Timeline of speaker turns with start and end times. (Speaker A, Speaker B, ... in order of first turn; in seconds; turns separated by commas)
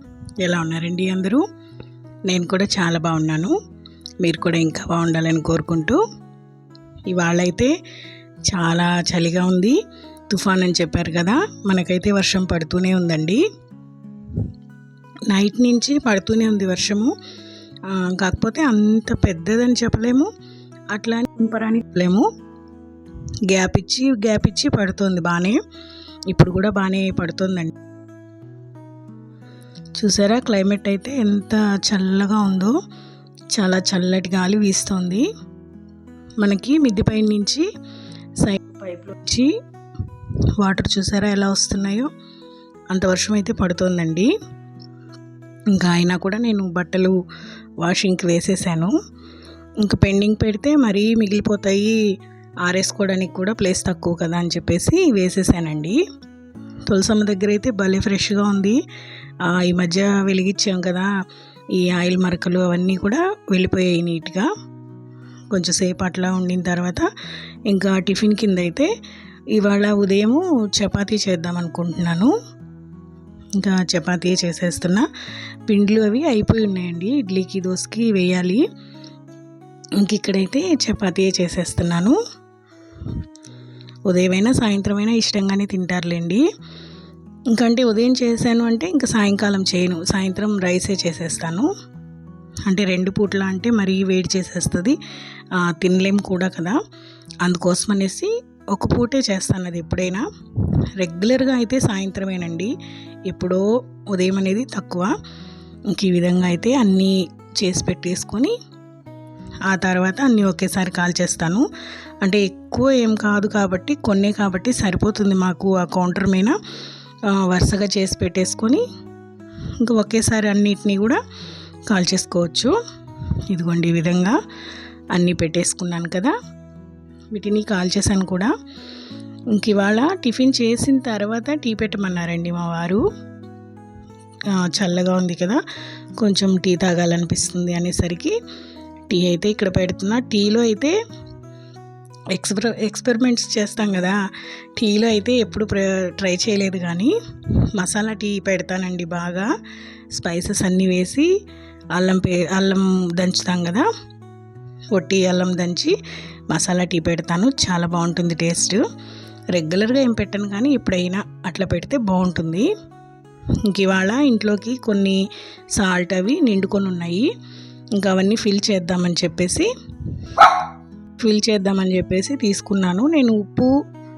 Speaker A: 0.4-1.4, Speaker A: 2.3-3.6, Speaker A: 4.2-6.0, Speaker A: 7.1-7.7, Speaker A: 8.5-9.8, Speaker A: 10.3-13.4, Speaker A: 15.3-17.1, Speaker A: 17.9-20.3, Speaker A: 20.9-22.3, Speaker A: 23.5-25.6, Speaker A: 26.3-27.7, Speaker A: 30.0-32.8, Speaker A: 33.5-35.3, Speaker A: 36.4-37.7, Speaker A: 38.4-39.5, Speaker A: 40.6-42.1, Speaker A: 42.9-44.3, Speaker A: 45.7-47.1, Speaker A: 47.8-48.9, Speaker A: 49.8-52.0, Speaker A: 52.6-56.0, Speaker A: 56.9-58.8, Speaker A: 59.4-61.1, Speaker A: 61.7-64.5, Speaker A: 65.5-67.1, Speaker A: 67.7-68.9, Speaker A: 69.5-72.3, Speaker A: 73.6-75.1, Speaker A: 75.7-78.6, Speaker A: 80.0-82.2, Speaker A: 84.1-86.4, Speaker A: 87.5-91.7, Speaker A: 92.7-95.0, Speaker A: 95.5-96.8, Speaker A: 97.4-100.2, Speaker A: 101.0-102.7, Speaker A: 103.3-105.1, Speaker A: 105.9-108.5, Speaker A: 109.7-111.7, Speaker A: 112.2-116.5, Speaker A: 117.3-118.8, Speaker A: 119.8-121.2, Speaker A: 121.9-122.7, Speaker A: 123.5-124.4, Speaker A: 125.1-126.3, Speaker A: 127.3-128.5, Speaker A: 129.5-133.0, Speaker A: 134.5-135.6, Speaker A: 136.2-138.3, Speaker A: 139.1-140.9, Speaker A: 142.3-144.2, Speaker A: 144.8-147.1, Speaker A: 147.8-149.5, Speaker A: 150.1-151.3, Speaker A: 151.9-153.9, Speaker A: 154.9-155.9, Speaker A: 156.5-158.8, Speaker A: 159.5-162.7, Speaker A: 163.7-165.2, Speaker A: 165.8-167.3, Speaker A: 168.0-169.7, Speaker A: 170.2-170.5, Speaker A: 171.2-173.8